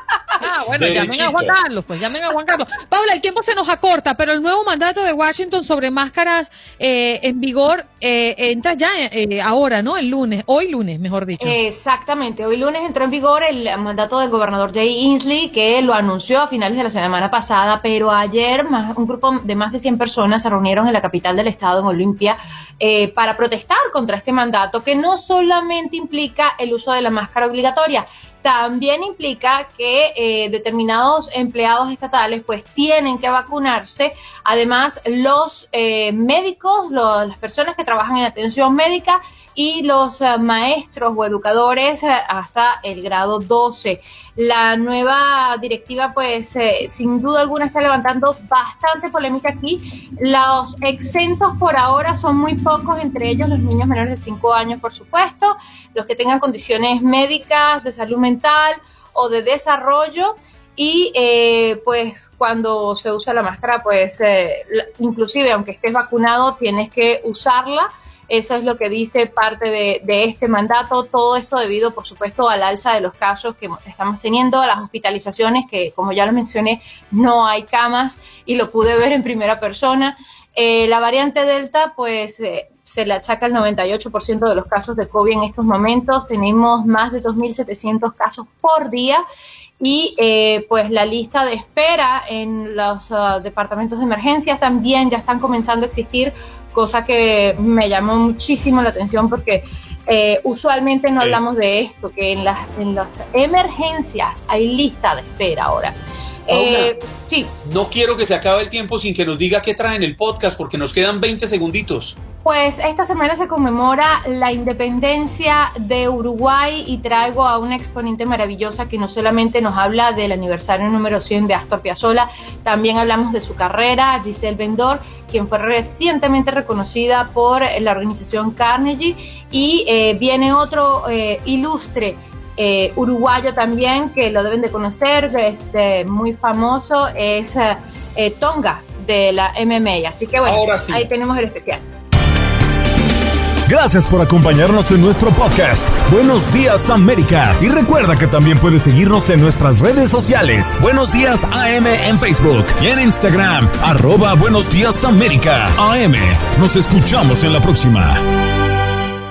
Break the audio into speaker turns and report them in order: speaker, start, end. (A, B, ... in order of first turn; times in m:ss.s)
0:00.4-0:11.6 A
0:00.7-0:01.6 B
0:11.4-1:29.2 C
1:29.8-1:46.0 C
1:46.5-1:47.5 C
1:46.5-1:47.0 B
1:47.6-1:52.2 B
1:52.4-2:21.8 C
2:20.5-2:21.1 B
2:23.7-2:38.2 D